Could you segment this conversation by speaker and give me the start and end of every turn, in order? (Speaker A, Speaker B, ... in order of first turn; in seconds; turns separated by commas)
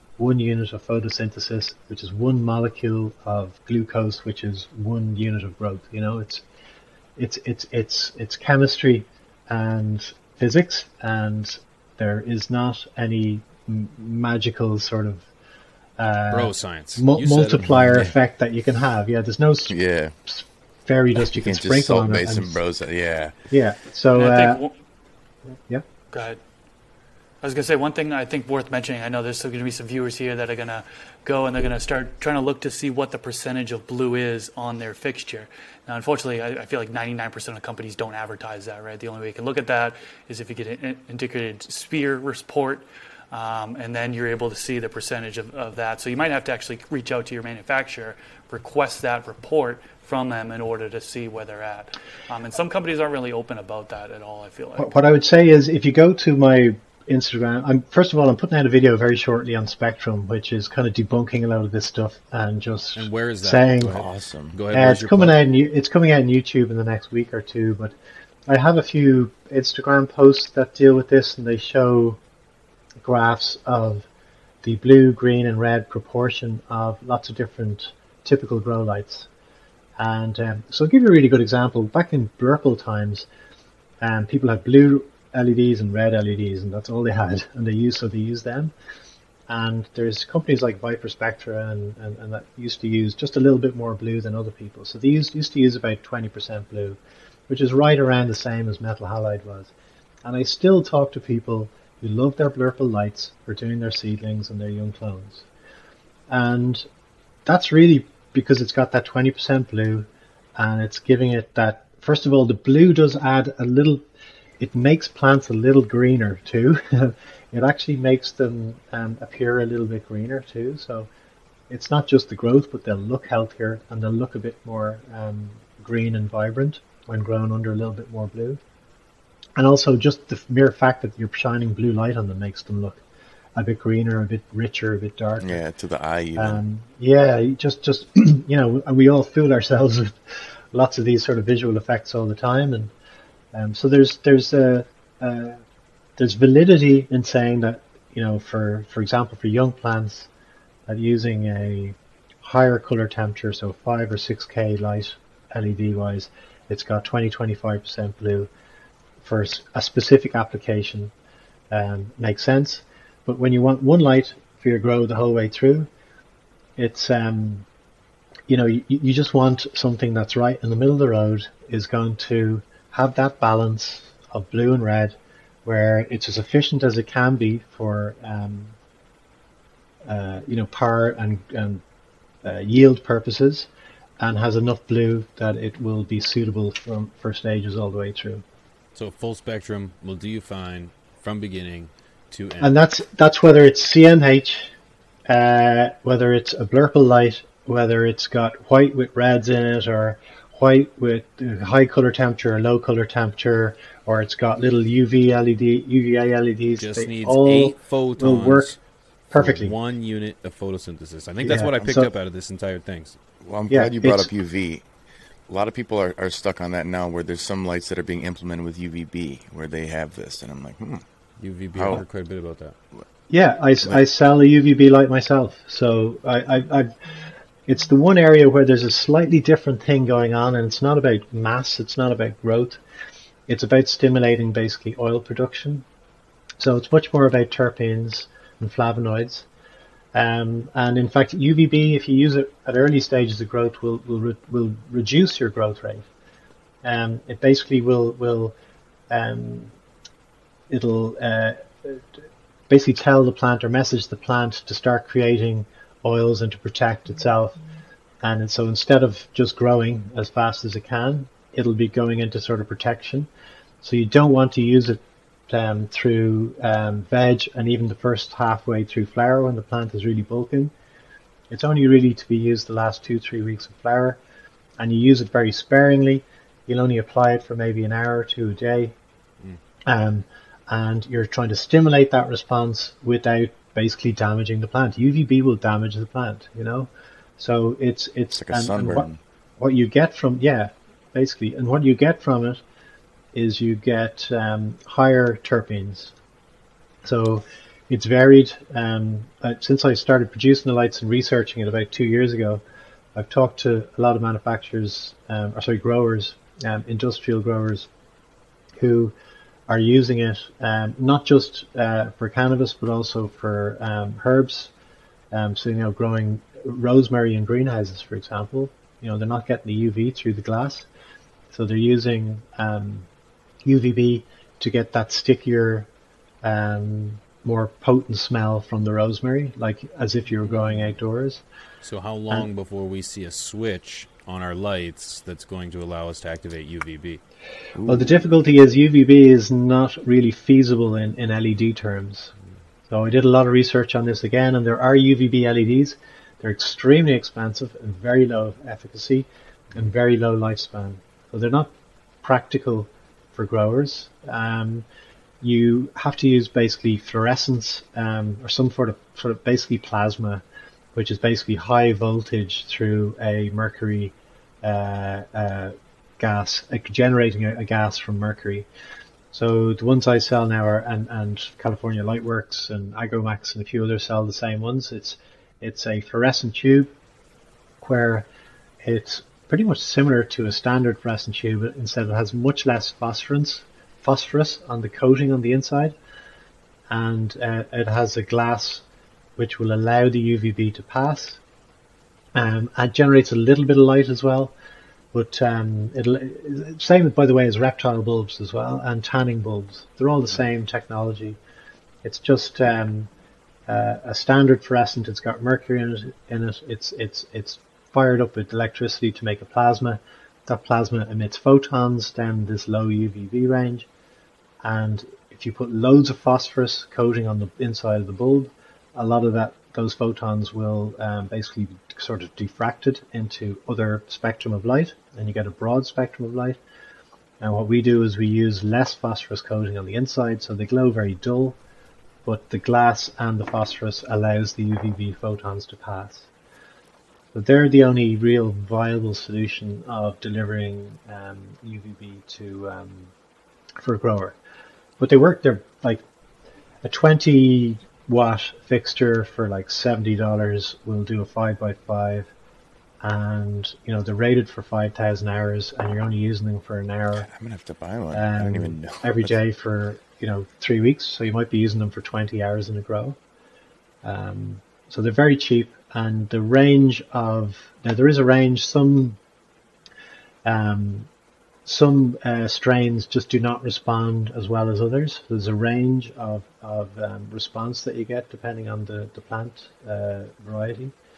Speaker A: 0.2-6.4, Speaker A: 7.2-15.2, Speaker A: 16.0-22.6, Speaker B: 16.3-18.1, Speaker C: 19.7-20.1, Speaker C: 21.3-23.3, Speaker A: 23.5-24.6, Speaker D: 24.1-24.8, Speaker D: 26.1-26.4, Speaker D: 27.4-54.9, Speaker A: 54.8-64.0, Speaker B: 63.0-65.4, Speaker C: 63.9-64.6, Speaker A: 64.7-67.9, Speaker A: 68.5-72.2, Speaker A: 73.0-74.1, Speaker A: 74.6-79.3, Speaker A: 80.0-83.3, Speaker A: 84.0-88.7, Speaker A: 89.5-97.0, Speaker A: 97.5-99.7, Speaker A: 100.2-105.5, Speaker A: 106.3-106.8, Speaker A: 107.5-114.0, Speaker A: 114.6-121.1, Speaker A: 121.7-128.6, Speaker A: 129.6-133.0, Speaker A: 133.6-135.6, Speaker C: 135.4-136.6, Speaker A: 136.4-140.2, Speaker A: 140.7-142.9, Speaker A: 143.5-145.6, Speaker A: 146.2-150.3, Speaker A: 150.9-158.5, Speaker A: 159.2-161.1, Speaker A: 161.7-165.9, Speaker A: 166.8-167.7, Speaker A: 168.5-178.7, Speaker A: 180.1-181.8, Speaker A: 182.4-183.7, Speaker A: 184.2-188.4, Speaker B: 188.9-192.7, Speaker A: 192.6-194.7, Speaker A: 195.3-208.8, Speaker B: 206.8-208.8, Speaker B: 209.3-213.2, Speaker A: 209.3-209.8, Speaker A: 211.4-212.1, Speaker C: 213.4-214.8, Speaker A: 213.7-214.3, Speaker C: 215.5-221.0, Speaker B: 221.4-222.8, Speaker C: 221.7-222.0, Speaker A: 223.3-226.9, Speaker A: 227.7-232.8, Speaker A: 233.5-235.8, Speaker A: 236.6-239.5, Speaker A: 240.1-246.1, Speaker A: 246.8-248.5, Speaker A: 249.1-249.7, Speaker A: 250.7-252.0, Speaker A: 252.7-257.6, Speaker A: 258.2-263.3, Speaker A: 263.8-270.7, Speaker A: 271.5-274.2, Speaker A: 274.8-278.9, Speaker A: 279.9-289.1, Speaker C: 288.3-289.2, Speaker A: 289.6-292.6, Speaker A: 293.3-296.1, Speaker A: 297.0-302.6, Speaker A: 303.1-307.9, Speaker A: 308.8-309.1, Speaker A: 309.7-314.7, Speaker A: 315.3-320.9, Speaker A: 321.5-323.1, Speaker A: 323.6-325.9, Speaker A: 326.4-331.4, Speaker B: 331.8-337.2, Speaker C: 337.7-338.3, Speaker A: 337.9-342.3, Speaker A: 342.9-351.7, Speaker A: 352.2-354.8, Speaker A: 355.4-360.4, Speaker A: 360.9-368.7, Speaker A: 369.3-376.9, Speaker A: 377.8-378.2, Speaker A: 378.8-385.9, Speaker A: 386.9-388.8, Speaker A: 389.4-391.4, Speaker A: 392.3-394.5, Speaker A: 395.1-401.4, Speaker A: 402.0-403.1, Speaker A: 403.7-413.9, Speaker A: 414.6-426.6, Speaker A: 427.4-431.6, Speaker A: 432.2-436.3, Speaker A: 437.3-443.1, Speaker A: 443.8-444.4, Speaker A: 445.0-446.0, Speaker A: 446.8-452.3, Speaker A: 453.0-457.3, Speaker C: 457.2-459.3, Speaker A: 458.1-463.2, Speaker A: 464.0-469.2, Speaker A: 470.4-471.1, Speaker A: 471.6-480.9